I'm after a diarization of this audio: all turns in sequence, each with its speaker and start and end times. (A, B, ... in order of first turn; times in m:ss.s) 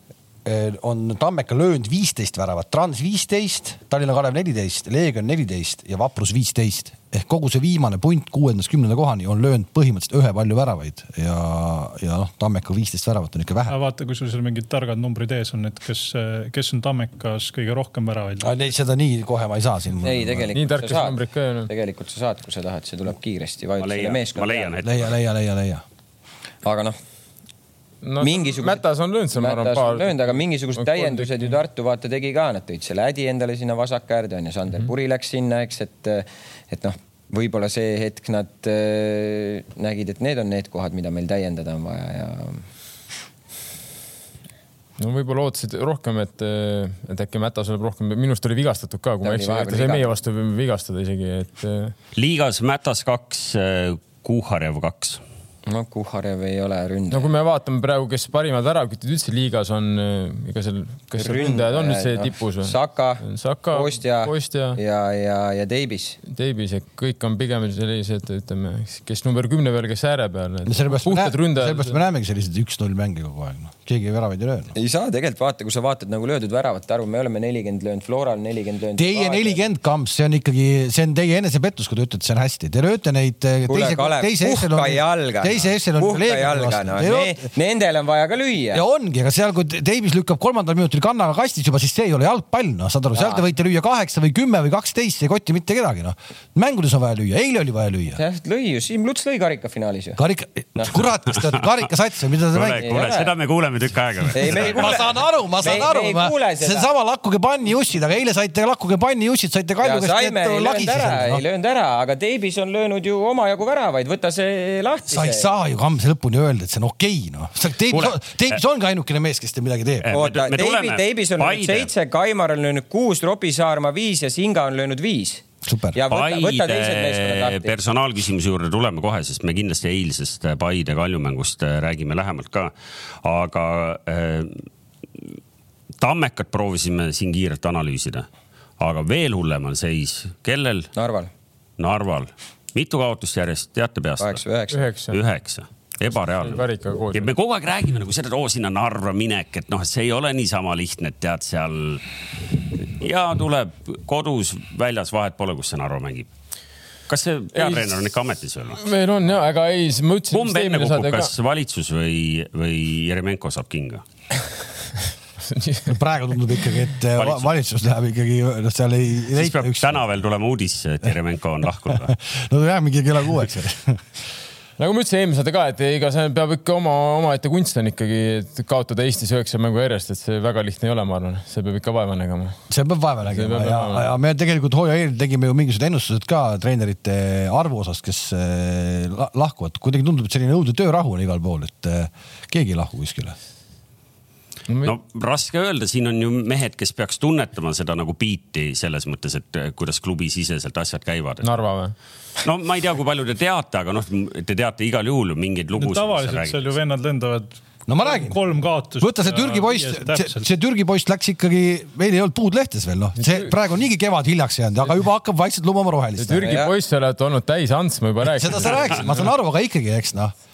0:00.4-0:13.8 A
0:13.7-0:18.5 B
0:18.4-0:20.6 A
0:20.0-0:24.7 C
0:20.5-0:21.7 D
0:23.8-0:25.1 E
0:24.8-0:25.8 A
0:26.6-0:27.0 C
0:28.0-0:31.5 D
0:28.2-0:28.8 C
0:29.3-0:42.6 C
0:45.0-0:52.0 D
0:49.2-0:50.0 C
0:52.1-0:55.2 E
0:55.7-0:57.3 C
0:57.1-1:04.8 D
1:01.2-1:06.2 C
1:06.3-1:12.0 D
1:10.7-1:14.7 A
1:14.8-1:19.6 C
1:19.0-1:27.4 A
1:23.7-1:28.8 C
1:28.7-1:38.2 A
1:33.2-1:33.4 C
1:38.2-1:40.2 C
1:40.2-1:43.1 A
1:40.8-1:41.0 C
1:42.5-1:45.0 E
1:42.8-1:43.3 C
1:44.4-1:45.1 C
1:44.5-1:51.4 A
1:45.6-1:46.9 C
1:49.8-1:55.5 C
1:55.1-2:00.1 A
1:57.9-1:58.2 E
2:00.0-2:01.9 E
2:00.1-2:07.7 C
2:05.6-2:06.0 A
2:06.1-2:14.6 E
2:16.0-2:18.3 E
2:18.8-2:20.9 E
2:21.0-2:21.3 C
2:21.8-2:24.4 E
2:24.2-2:24.9 C
2:24.7-2:25.2 D
2:25.1-2:26.6 E
2:26.4-2:27.3 D
2:27.1-2:36.3 E
2:37.1-2:38.8 E
2:37.6-2:38.0 D
2:38.8-2:41.3 D
2:40.3-2:44.0 E
2:45.4-2:45.9 D
2:45.9-2:50.0 A
2:47.2-2:47.5 E
2:49.4-2:52.2 E
2:52.0-2:54.0 A
2:54.8-3:02.6 D
3:02.7-3:13.4 A
3:03.3-3:04.1 D
3:14.8-3:21.5 E
3:21.4-3:22.0 D
3:22.4-3:26.8 E
3:25.8-3:30.5 B
3:27.9-3:28.4 A
3:29.0-3:36.6 A
3:33.2-3:33.5 D
3:36.2-3:39.1 D
3:36.4-3:36.7 C
3:38.3-3:40.3 A